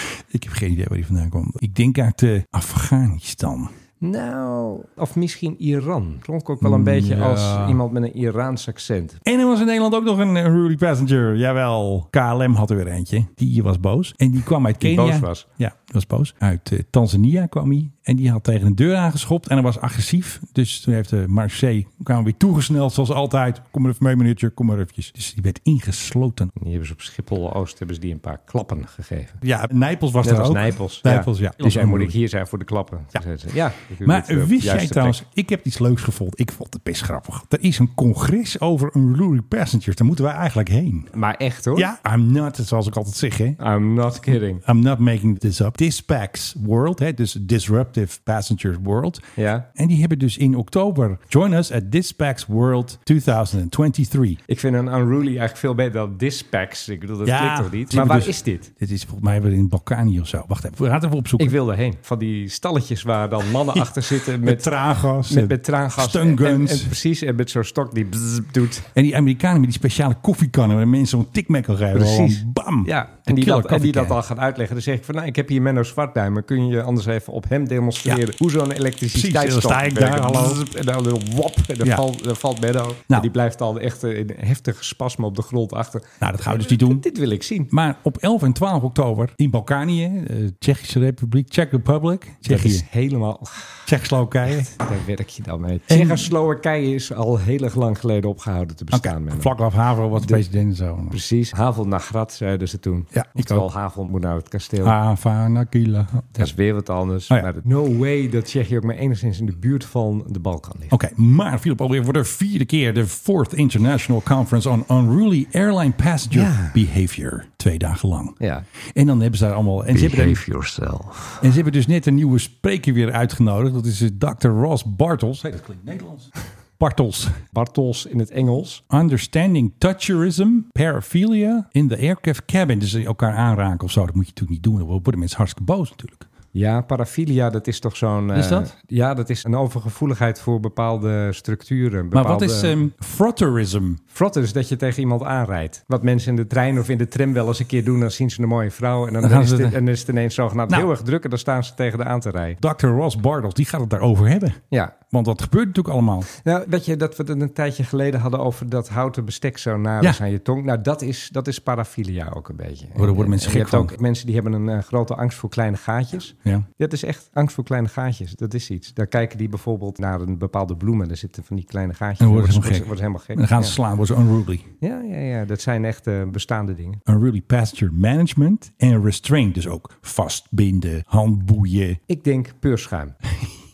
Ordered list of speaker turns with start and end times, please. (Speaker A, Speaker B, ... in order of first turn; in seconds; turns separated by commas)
Speaker A: 0.3-3.7, Speaker B: 4.0-9.2, Speaker A: 6.6-7.8, Speaker A: 9.2-26.5, Speaker B: 14.8-15.4, Speaker B: 26.6-29.4, Speaker A: 29.4-32.1, Speaker B: 30.2-35.2, Speaker A: 34.0-41.1, Speaker B: 41.1-41.9, Speaker A: 41.7-43.6, Speaker B: 43.6-44.6, Speaker A: 44.6-49.2, Speaker B: 49.4-49.7, Speaker A: 49.7-54.4, Speaker B: 54.5-58.7, Speaker A: 57.2-61.5, Speaker B: 61.4-64.7, Speaker A: 63.7-66.9, Speaker B: 65.2-68.9, Speaker A: 68.9-74.2, Speaker B: 71.9-87.7, Speaker A: 79.1-80.6, Speaker A: 86.2-87.0, Speaker A: 87.7-92.8, Speaker B: 92.5-93.9, Speaker A: 93.9-94.7, Speaker B: 94.4-99.5, Speaker A: 95.9-96.3, Speaker A: 98.9-101.2, Speaker B: 101.1-105.0, Speaker A: 103.1-103.7, Speaker A: 104.8-106.5, Speaker B: 106.3-110.9, Speaker A: 110.9-118.4, Speaker B: 116.3-116.8, Speaker B: 118.4-118.6, Speaker A: 118.9-120.4, Speaker B: 119.9-121.5, Speaker A: 121.4-127.4, Speaker B: 127.5-128.8, Speaker A: 128.9-136.3, Speaker B: 136.5-142.8, Speaker A: 138.3-138.7, Speaker A: 142.1-144.0, Speaker B: 144.1-152.6, Speaker A: 149.2-149.8, Speaker A: 152.6-156.3, Speaker B: 156.3-173.8, Speaker A: 162.9-163.9, Speaker A: 172.2-174.7, Speaker B: 174.8-177.0, Speaker A: 177.1-182.0, Speaker B: 182.1-183.1